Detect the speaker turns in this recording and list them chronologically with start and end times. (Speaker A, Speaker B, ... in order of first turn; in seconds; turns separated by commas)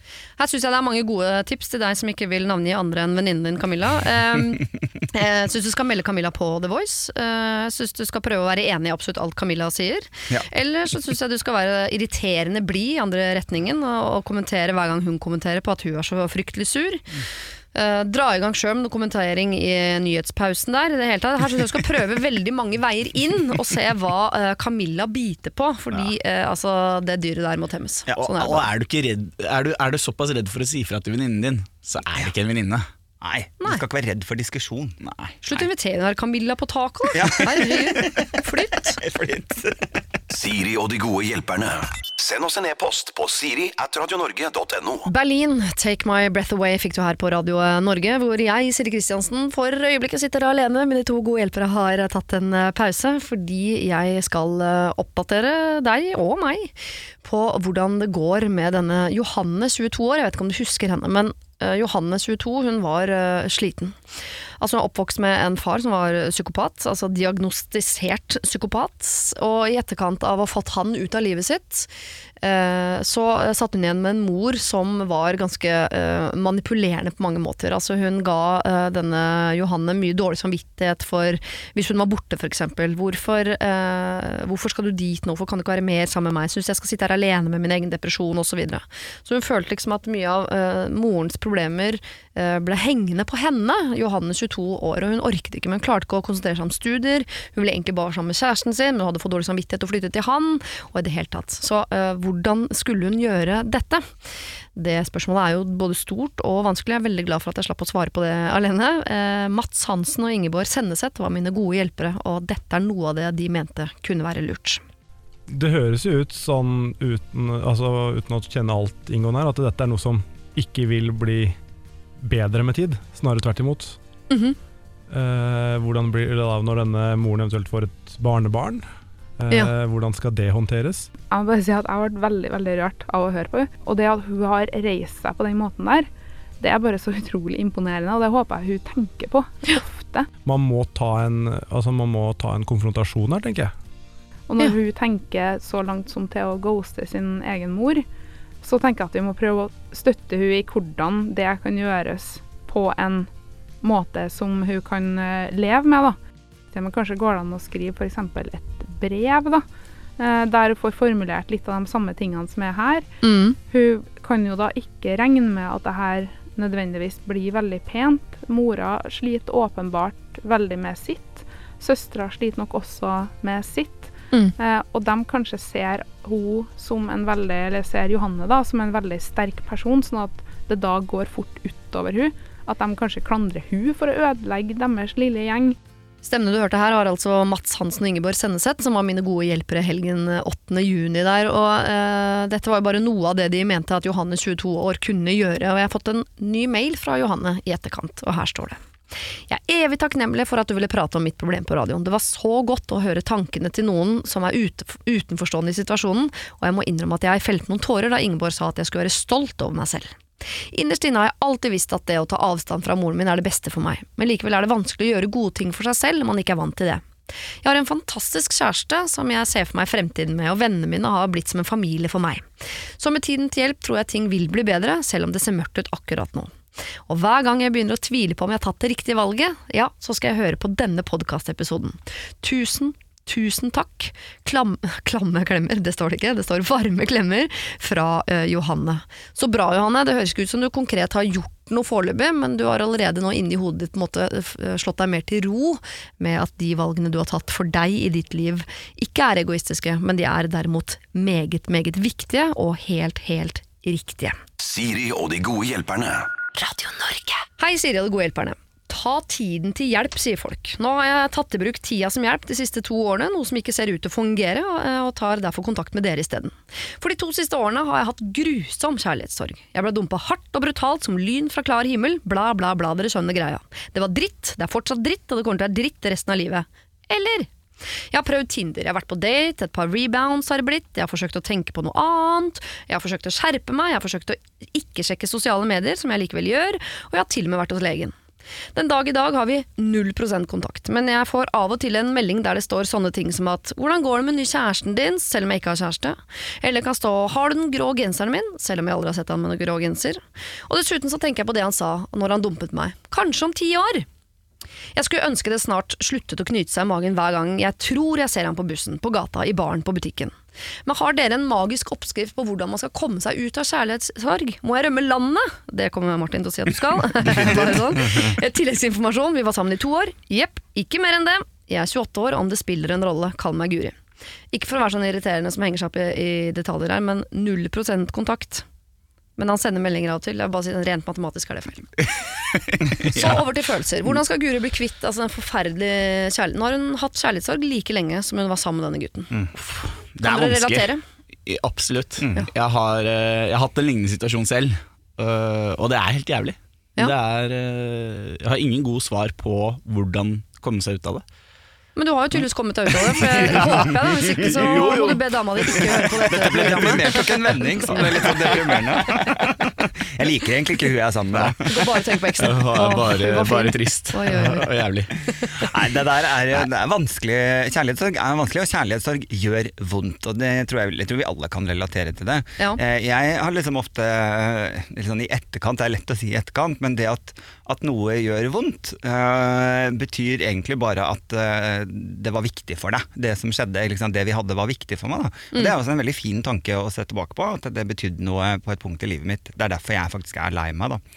Speaker A: 0.4-17.1, Speaker A: 17.7-28.7, Speaker B: 28.2-32.9, Speaker C: 33.2-35.0, Speaker B: 35.0-35.3, Speaker A: 35.4-39.0, Speaker C: 37.1-39.9, Speaker D: 40.3-45.1, Speaker A: 45.1-64.0, Speaker A: 64.6-71.9, Speaker A: 72.4-104.0, Speaker A: 104.8-114.8, Speaker E: 115.5-121.6, Speaker E: 122.2-124.0, Speaker A: 124.3-124.6, Speaker E: 125.1-128.9, Speaker E: 129.4-131.1, Speaker F: 131.3-140.3, Speaker E: 140.4-143.7, Speaker F: 144.5-148.1, Speaker F: 148.6-153.3, Speaker F: 153.8-156.2, Speaker F: 156.7-159.7, Speaker F: 160.2-163.1, Speaker A: 163.2-163.6, Speaker F: 163.6-185.8, Speaker A: 186.2-198.8, Speaker A: 199.5-217.0, Speaker A: 217.6-222.5, Speaker A: 223.0-226.6, Speaker A: 227.1-254.4, Speaker D: 254.6-256.4, Speaker A: 256.6-277.5, Speaker A: 278.1-288.1, Speaker A: 288.8-304.1, Speaker A: 304.9-324.0, Speaker A: 324.5-328.6, Speaker A: 329.4-331.9, Speaker B: 332.1-333.5, Speaker A: 333.1-339.3, Speaker B: 339.6-340.9, Speaker A: 340.2-341.0, Speaker B: 341.5-351.2, Speaker A: 352.0-357.2, Speaker B: 353.2-359.3, Speaker C: 356.3-361.8, Speaker A: 357.9-358.3, Speaker A: 361.7-364.7, Speaker B: 362.4-365.1, Speaker A: 365.3-365.5, Speaker C: 365.6-391.0